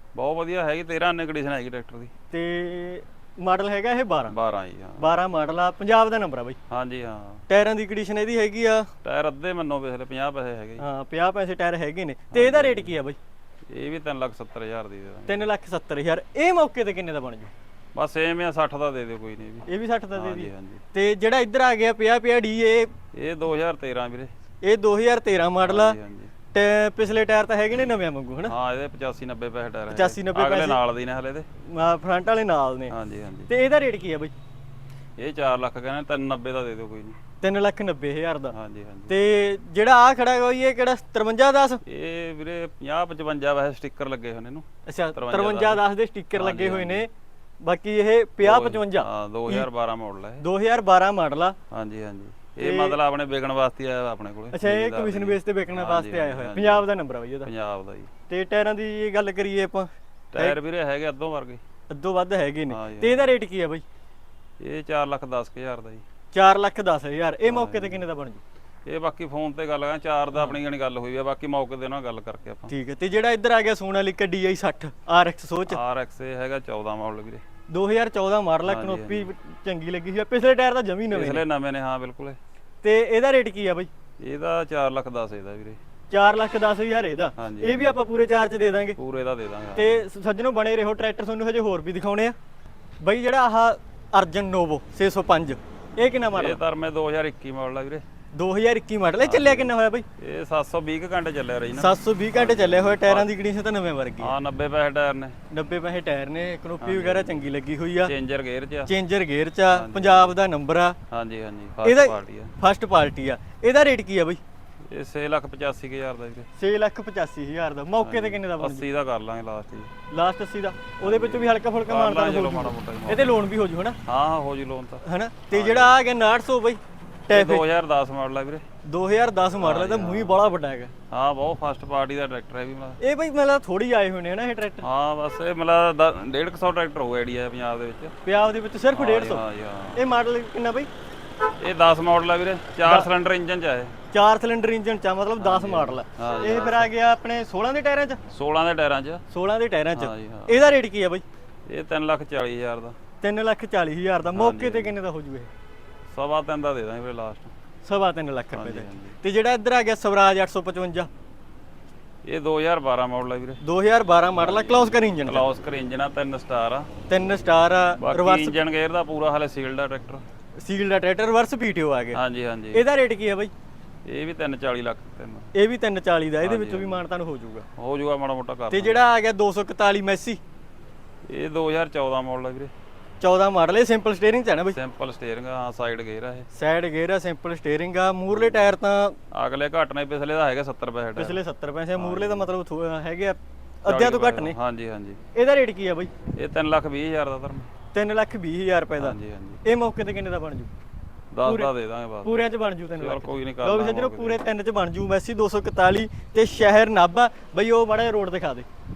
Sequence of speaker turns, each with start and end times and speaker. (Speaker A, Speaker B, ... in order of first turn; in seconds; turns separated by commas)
Speaker A: 0.1-2.1, Speaker B: 2.3-4.3, Speaker A: 4.3-5.0, Speaker B: 5.0-6.6, Speaker A: 6.7-7.4, Speaker B: 7.5-8.9, Speaker A: 9.0-10.8, Speaker B: 10.8-13.2, Speaker A: 12.3-13.0, Speaker A: 13.7-15.5, Speaker B: 15.3-17.5, Speaker A: 17.9-20.8, Speaker B: 19.7-22.9, Speaker A: 23.1-24.3, Speaker B: 24.6-26.0, Speaker A: 25.6-26.3, Speaker B: 26.5-28.5, Speaker A: 28.5-31.5, Speaker B: 29.9-30.8, Speaker B: 31.7-32.9, Speaker A: 32.9-33.5, Speaker B: 33.5-34.3, Speaker A: 35.2-37.2, Speaker B: 37.4-38.5, Speaker A: 38.5-39.1, Speaker B: 39.1-41.8, Speaker A: 41.9-45.8, Speaker B: 44.9-47.1, Speaker A: 46.3-47.1, Speaker B: 47.6-49.7, Speaker A: 48.4-50.4, Speaker B: 50.4-51.6, Speaker A: 51.7-56.9, Speaker B: 52.6-53.0, Speaker B: 54.5-57.5, Speaker A: 57.4-58.1, Speaker B: 58.3-60.6, Speaker A: 60.3-61.6, Speaker B: 61.9-63.8, Speaker A: 62.7-63.3, Speaker A: 64.6-66.0, Speaker B: 66.3-68.4, Speaker A: 67.5-68.0, Speaker A: 68.9-72.7, Speaker B: 72.7-75.8, Speaker A: 75.7-77.4, Speaker B: 77.7-81.4, Speaker A: 78.7-79.3, Speaker A: 81.1-82.4, Speaker B: 82.8-83.9, Speaker A: 84.2-85.8, Speaker B: 86.1-89.0, Speaker A: 87.4-87.9, Speaker A: 89.0-90.0, Speaker B: 89.8-92.3, Speaker B: 93.0-96.6, Speaker A: 96.3-98.0, Speaker B: 98.3-100.0, Speaker A: 99.2-103.3, Speaker B: 101.8-104.3, Speaker A: 104.2-105.4, Speaker B: 105.5-108.1, Speaker A: 106.8-107.5, Speaker A: 108.0-108.9, Speaker B: 108.9-111.0, Speaker A: 109.7-110.4, Speaker A: 111.1-112.5, Speaker B: 111.8-114.4, Speaker A: 114.9-116.5, Speaker B: 116.6-118.9, Speaker A: 118.0-119.9, Speaker B: 120.1-124.0, Speaker A: 121.0-123.3, Speaker A: 124.1-126.0, Speaker B: 125.0-127.7, Speaker A: 127.3-128.6, Speaker B: 128.9-130.9, Speaker A: 129.6-130.4, Speaker A: 131.1-133.0, Speaker B: 133.0-134.9, Speaker A: 134.8-138.1, Speaker B: 138.3-139.4, Speaker A: 138.9-140.0, Speaker B: 140.0-140.9, Speaker A: 141.6-143.9, Speaker B: 144.1-148.2, Speaker A: 145.4-146.9, Speaker A: 148.3-149.2, Speaker B: 149.3-151.2, Speaker A: 149.9-150.6, Speaker A: 151.7-153.0, Speaker B: 153.2-155.5, Speaker A: 154.3-154.9, Speaker A: 156.1-157.5, Speaker B: 157.8-161.1, Speaker A: 158.5-159.2, Speaker A: 162.2-163.6, Speaker B: 163.6-165.5, Speaker A: 164.4-166.9, Speaker B: 167.1-168.6, Speaker A: 168.0-170.2, Speaker B: 170.6-172.2, Speaker A: 172.1-172.8, Speaker B: 172.7-173.5, Speaker A: 174.1-175.5, Speaker B: 175.6-177.7, Speaker A: 176.4-177.1, Speaker A: 177.8-179.0, Speaker B: 178.7-180.4, Speaker A: 181.3-182.7, Speaker B: 183.2-184.8, Speaker A: 184.7-186.5, Speaker B: 186.5-189.2, Speaker A: 189.3-191.4, Speaker B: 191.2-194.6, Speaker A: 192.0-192.5, Speaker A: 193.9-195.2, Speaker B: 195.3-196.1, Speaker A: 196.3-197.7, Speaker B: 197.9-200.7, Speaker A: 199.0-199.6, Speaker A: 201.3-202.4, Speaker B: 201.4-201.7, Speaker B: 202.2-208.7, Speaker A: 203.0-204.4